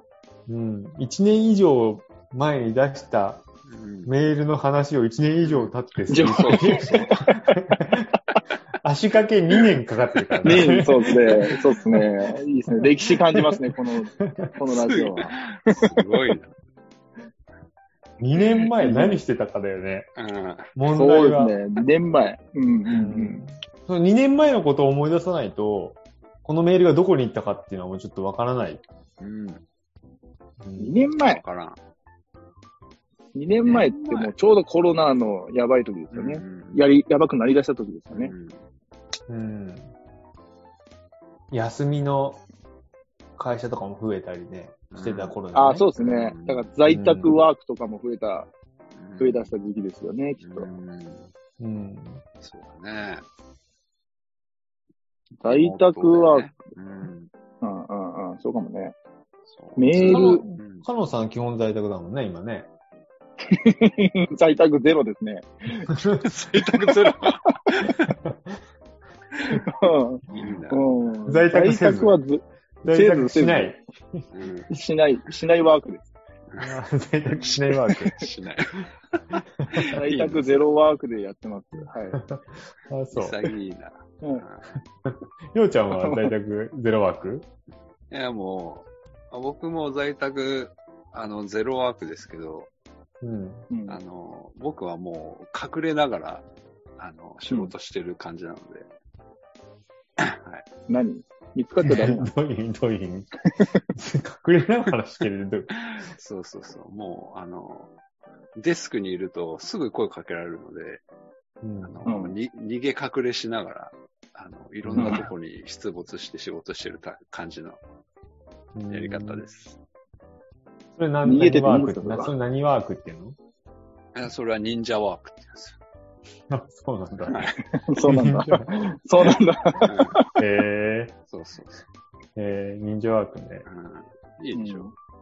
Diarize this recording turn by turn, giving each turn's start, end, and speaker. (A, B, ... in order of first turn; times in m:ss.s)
0:00.5-0:03.4 A
0:03.6-0:04.1 B
0:04.0-0:08.1 A
0:05.4-0:07.1 B
0:06.1-0:07.5 C
0:08.8-0:11.7 A
0:10.4-0:11.4 B
0:10.4-0:15.9 C
0:12.8-0:13.6 A
0:14.2-0:14.5 A
0:14.7-0:16.5 B
0:18.2-0:20.1 A
0:18.3-0:19.1 B
0:20.2-0:20.7 B
0:20.7-0:21.6 A
0:20.9-0:23.4 C
0:22.9-0:28.8 A
0:29.2-0:29.6 B
0:30.6-0:31.1 A
0:30.8-0:31.4 C
0:31.2-0:31.8 B
0:33.3-0:38.3 C
0:33.6-0:34.3 B
0:36.1-0:36.8 B
0:38.1-0:38.6 B
0:39.3-0:39.9 A
0:41.5-0:42.4 A
0:43.4-0:45.9 A
0:44.9-0:45.4 B
0:45.5-0:48.5 C
0:45.9-0:46.7 B
0:46.8-0:47.4 A
0:48.9-0:49.5 B
0:49.2-0:50.7 C
0:50.4-0:51.3 B
0:51.6-0:52.2 A
0:52.4-0:53.2 B
0:55.4-0:56.5 C
0:55.4-0:57.3 B
0:57.6-0:58.9 C
0:59.5-1:00.9 B
0:59.8-1:00.4 C
1:00.0-1:02.7 A
1:03.5-1:05.9 C
1:06.2-1:08.2 B
1:06.5-1:07.0 C
1:09.6-1:13.7 C
1:10.3-1:10.8 B
1:11.3-1:12.2 A
1:12.8-1:14.3 A
1:14.3-1:14.7 B
1:14.7-1:16.1 C
1:16.5-1:16.8 B
1:16.6-1:18.3 A
1:17.4-1:20.6 B
1:19.3-1:20.0 A
1:20.0-1:22.2 C
1:22.1-1:23.4 A
1:23.1-1:24.8 B
1:25.0-1:27.4 A
1:25.9-1:26.3 C
1:28.1-1:32.7 B
1:33.2-1:33.7 A
1:33.7-1:34.0 C
1:33.9-1:36.5 B
1:37.0-1:38.9 B
1:37.5-1:37.7 C
1:40.4-1:40.6 B
1:40.9-1:42.3 C
1:41.8-1:43.4 A
1:43.9-1:45.8 A
1:45.9-1:47.9 B
1:48.6-1:51.0 B
1:51.6-1:52.1 A
1:51.8-1:57.8 B
1:52.0-1:52.3 C
1:54.8-1:55.2 A
1:58.7-1:59.4 A
1:58.9-1:59.8 B
2:00.9-2:03.4 A
2:01.2-2:02.3 C
2:04.1-2:05.8 B
2:06.5-2:07.5 A
2:07.2-2:07.6 B
2:07.9-2:10.3 C
2:08.0-2:08.7 A
2:09.8-2:10.2 B
2:10.4-2:11.1 A
2:11.3-2:11.8 B
2:12.4-2:13.6 A
2:13.6-2:14.9 B
2:14.5-2:14.9 C